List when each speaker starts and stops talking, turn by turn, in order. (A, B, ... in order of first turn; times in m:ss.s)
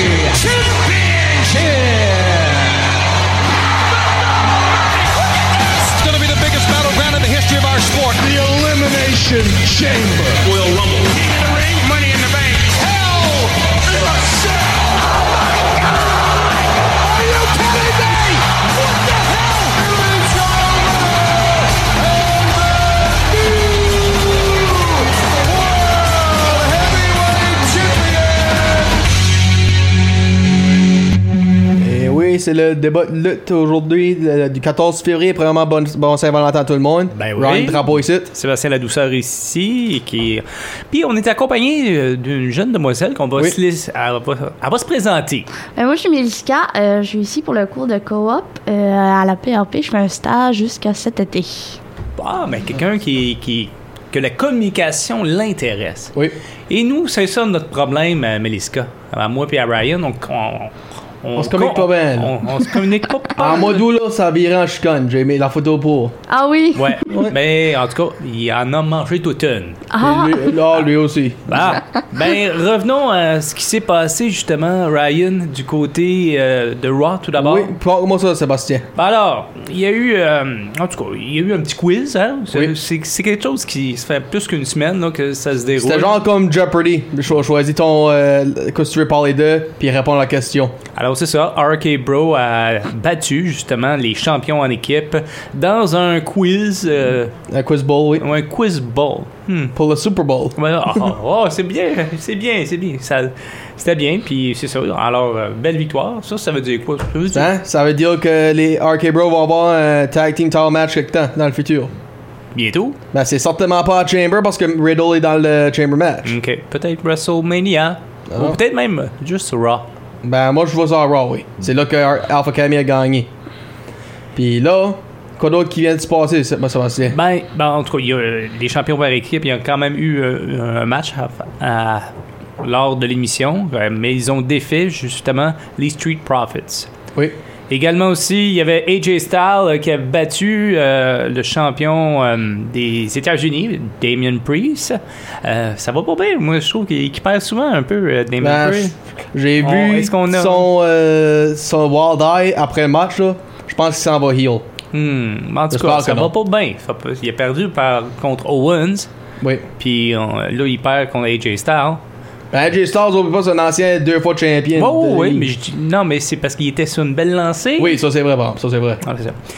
0:00.4-0:02.0 A
0:05.6-0:24.0 A
0:24.6-0:28.8 A
0:31.8-0:38.3 B
0:37.1-0:45.5 C
0:45.8-0:51.8 D
0:52.2-0:56.1 C
0:56.7-1:03.8 C
1:01.3-1:02.4 B
1:03.4-1:06.1 B
1:06.3-1:07.3 D
1:06.7-1:09.9 C
1:10.0-1:10.5 D
1:10.0-1:11.8 B
1:11.5-1:17.7 C
1:17.4-1:18.9 B
1:19.0-1:26.2 C
1:25.8-1:30.7 B
1:31.0-1:37.3 C
1:37.5-1:38.3 B
1:38.2-1:39.8 C
1:39.7-1:40.6 B
1:40.6-1:47.5 C
1:47.3-1:51.9 B
1:52.5-1:53.0 C
1:53.1-1:56.3 B
1:56.2-1:59.8 C
1:58.3-1:58.6 B
2:00.2-2:03.3 B
2:04.3-2:07.2 B
2:07.1-2:12.1 C
2:12.6-2:16.9 C
2:17.7-2:28.9 C
2:28.4-2:34.6 B
2:29.6-2:30.7 C
2:34.9-2:39.1 C
2:35.7-2:36.3 B
2:39.4-2:39.7 B
2:39.8-2:42.0 C
2:42.5-2:45.5 B
2:44.7-2:48.0 C
2:47.8-2:49.0 B
2:49.0-2:49.4 C